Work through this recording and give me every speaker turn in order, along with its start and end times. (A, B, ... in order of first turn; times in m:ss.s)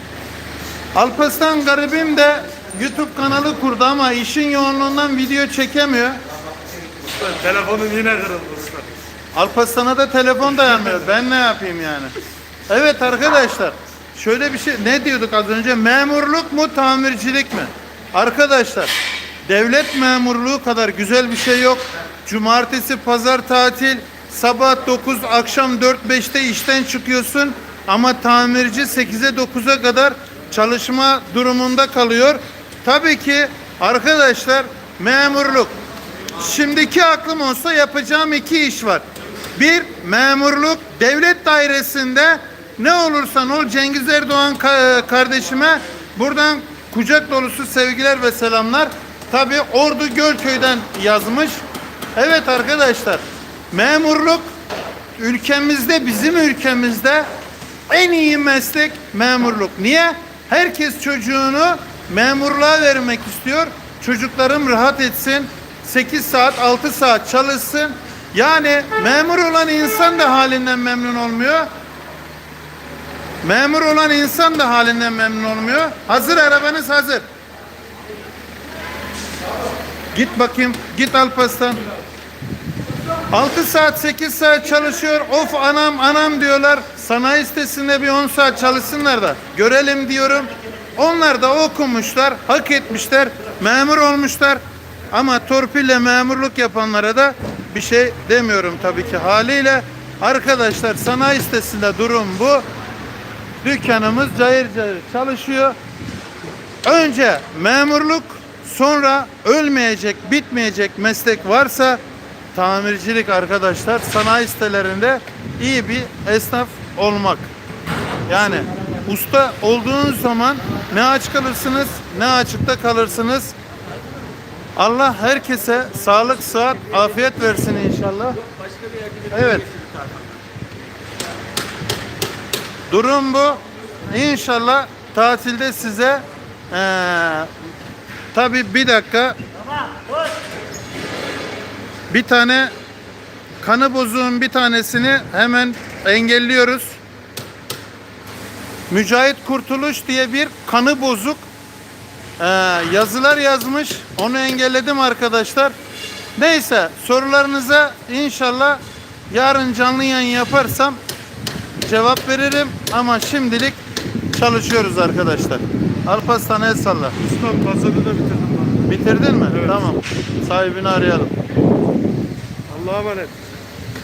0:00.9-0:06.2 A
0:07.0-0:08.9 B
0:09.3-0:12.1 A
0:12.7-0:18.9 A
0:19.4-0:35.7 A
0:36.4-0:39.0 A
0:39.6-0:51.6 A
0:52.2-0:54.4 A
0:55.2-0:57.3 A
0:57.9-1:11.7 A
1:13.4-1:17.2 A
1:20.1-1:21.8 A
1:23.3-1:34.6 A
1:35.1-1:42.6 A
1:43.6-1:45.8 A
1:46.8-1:52.0 A
1:52.5-1:57.5 A
1:58.3-2:03.5 A
2:04.8-2:08.4 A
2:08.8-2:10.3 B
2:09.3-2:09.7 A
2:12.9-2:17.5 A
2:18.3-2:19.4 A
2:22.1-2:22.7 A
2:23.6-2:27.0 A
2:28.9-2:31.4 A
2:32.4-2:35.7 A
2:36.4-2:41.0 A
2:41.8-2:43.8 A
2:44.3-2:47.2 A
2:47.2-2:48.8 B
2:48.8-2:51.3 A
2:49.5-2:49.9 B
2:52.7-2:53.3 B